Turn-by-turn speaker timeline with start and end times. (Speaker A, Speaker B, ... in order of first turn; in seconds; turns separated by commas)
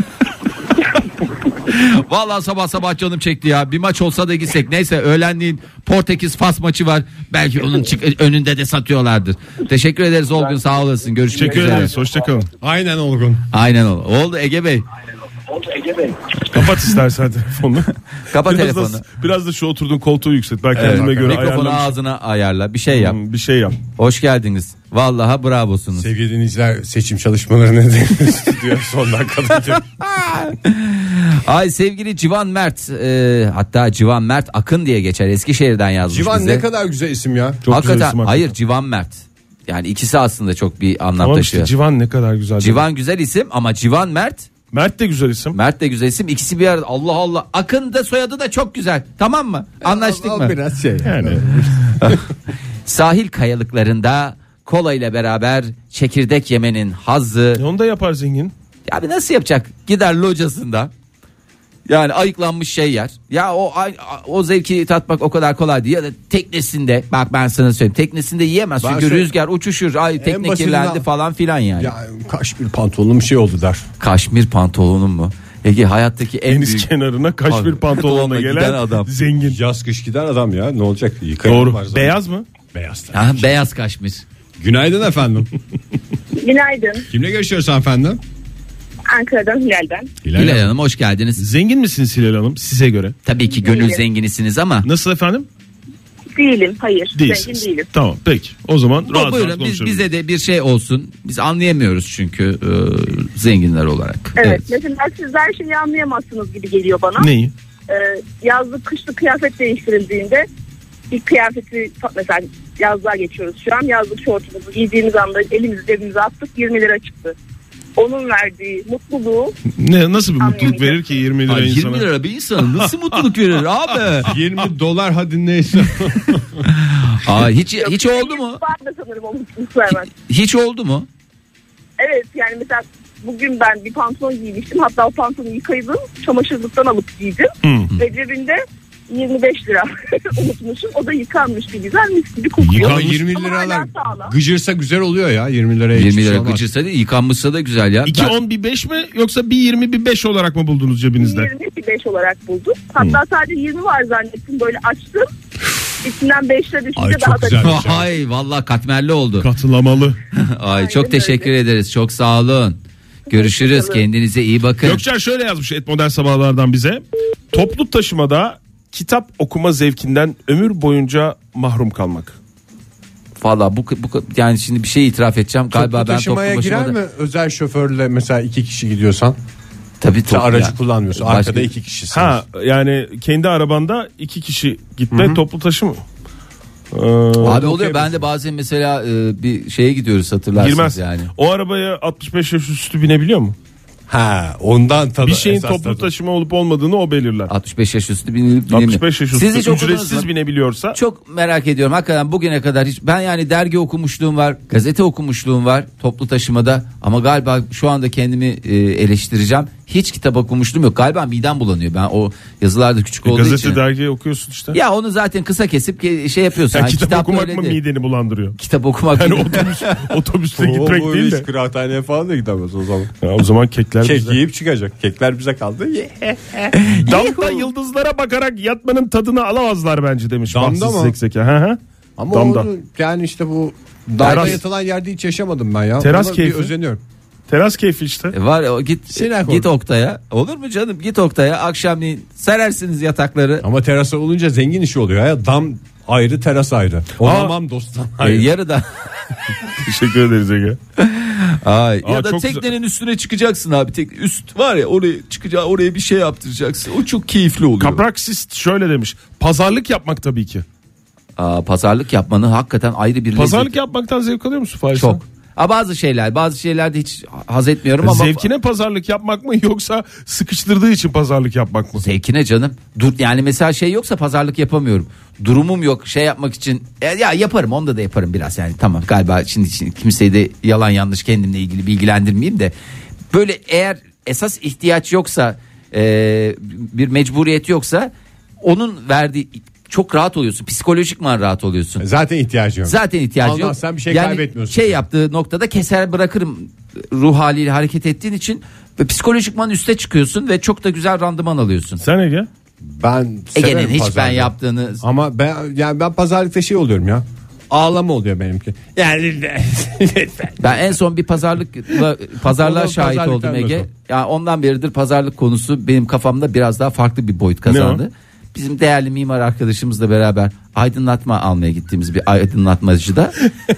Speaker A: 1.7-11.9, Speaker B: 10.3-12.5, Speaker C: 11.3-12.5, Speaker D: 12.6-13.4, Speaker A: 13.5-14.9, Speaker B: 15.5-16.2, Speaker C: 16.5-21.9, Speaker A: 18.3-19.0, Speaker A: 20.7-23.2, Speaker D: 20.8-21.4, Speaker C: 22.9-23.8, Speaker A: 23.9-26.1, Speaker D: 25.9-30.0, Speaker A: 30.1-36.6, Speaker D: 36.1-37.6, Speaker C: 37.6-38.5, Speaker A: 37.7-41.7, Speaker C: 41.2-42.8, Speaker A: 42.6-44.5, Speaker C: 44.7-45.6, Speaker A: 45.5-50.5, Speaker D: 49.8-52.2, Speaker C: 51.0-51.5, Speaker A: 52.9-57.6, Speaker C: 57.6-58.5, Speaker A: 58.9-60.9, Speaker A: 61.9-71.9, Speaker D: 68.8-69.3, Speaker D: 70.2-71.1, Speaker D: 71.8-73.8, Speaker A: 74.0-76.9, Speaker C: 76.5-79.6, Speaker A: 77.5-79.1, Speaker D: 79.4-82.2, Speaker C: 81.4-82.4, Speaker D: 82.7-83.5, Speaker A: 83.1-84.2, Speaker D: 84.6-85.5, Speaker E: 86.4-87.0, Speaker D: 87.1-88.2, Speaker E: 89.1-90.1, Speaker D: 90.2-90.7, Speaker A: 90.3-91.4, Speaker C: 91.4-93.2, Speaker A: 93.2-94.9, Speaker E: 93.5-94.0, Speaker C: 94.8-95.5, Speaker E: 96.3-97.9, Speaker C: 97.2-100.0, Speaker A: 99.1-104.6, Speaker E: 104.4-107.3, Speaker C: 107.2-107.5, Speaker E: 107.9-110.5, Speaker E: 111.1-117.3, Speaker E: 118.0-119.5, Speaker C: 119.8-122.9, Speaker E: 120.4-121.1, Speaker A: 121.5-124.3, Speaker D: 124.2-126.6, Speaker A: 126.7-128.6, Speaker E: 127.8-130.1, Speaker A: 130.2-131.1, Speaker E: 132.0-138.6, Speaker C: 137.6-137.9, Speaker E: 139.1-144.3, Speaker C: 142.6-143.2, Speaker D: 142.7-146.6, Speaker A: 145.9-148.4, Speaker C: 148.0-151.5, Speaker E: 151.2-155.3, Speaker E: 156.0-157.8, Speaker D: 156.9-158.1, Speaker A: 157.6-159.5, Speaker C: 159.4-160.2, Speaker A: 160.3-162.8, Speaker E: 160.7-161.5, Speaker E: 163.3-164.0, Speaker A: 163.3-165.0, Speaker C: 164.8-172.4, Speaker A: 173.4-176.9, Speaker D: 175.7-179.4, Speaker A: 180.0-181.7, Speaker D: 180.3-182.4, Speaker C: 182.1-186.0, Speaker D: 185.1-185.4, Speaker C: 186.9-188.0, Speaker D: 187.4-188.1, Speaker A: 187.4-191.3, Speaker C: 190.5-193.6, Speaker D: 194.1-196.1, Speaker C: 195.2-197.5, Speaker A: 197.5-200.3, Speaker C: 198.7-201.0, Speaker A: 200.9-213.8, Speaker C: 213.2-214.8, Speaker A: 214.7-217.8, Speaker C: 216.7-218.6, Speaker A: 218.6-220.0, Speaker C: 219.1-221.4, Speaker D: 220.6-223.1, Speaker C: 223.2-224.4, Speaker D: 224.0-226.8, Speaker A: 226.8-227.5, Speaker C: 227.0-231.8, Speaker D: 230.5-231.2, Speaker D: 232.2-237.0, Speaker C: 232.3-232.7, Speaker A: 234.2-234.6, Speaker C: 234.2-234.6, Speaker C: 236.0-236.7, Speaker C: 237.5-238.3, Speaker A: 238.3-243.6, Speaker D: 239.1-239.7, Speaker D: 243.6-248.5, Speaker C: 247.2-247.5, Speaker A: 248.2-248.9, Speaker C: 249.7-250.8, Speaker A: 251.0-258.0, Speaker C: 252.0-252.7, Speaker C: 257.8-260.6, Speaker A: 261.4-263.7, Speaker C: 263.4-265.2, Speaker A: 264.9-268.5, Speaker C: 268.0-272.0, Speaker A: 272.0-282.7, Speaker A: 283.3-292.0, Speaker D: 292.0-295.0, Speaker A: 292.9-302.0, Speaker C: 302.0-302.5, Speaker D: 302.8-311.0, Speaker A: 303.5-305.0, Speaker A: 310.6-323.3, Speaker D: 311.9-313.9, Speaker C: 317.7-318.0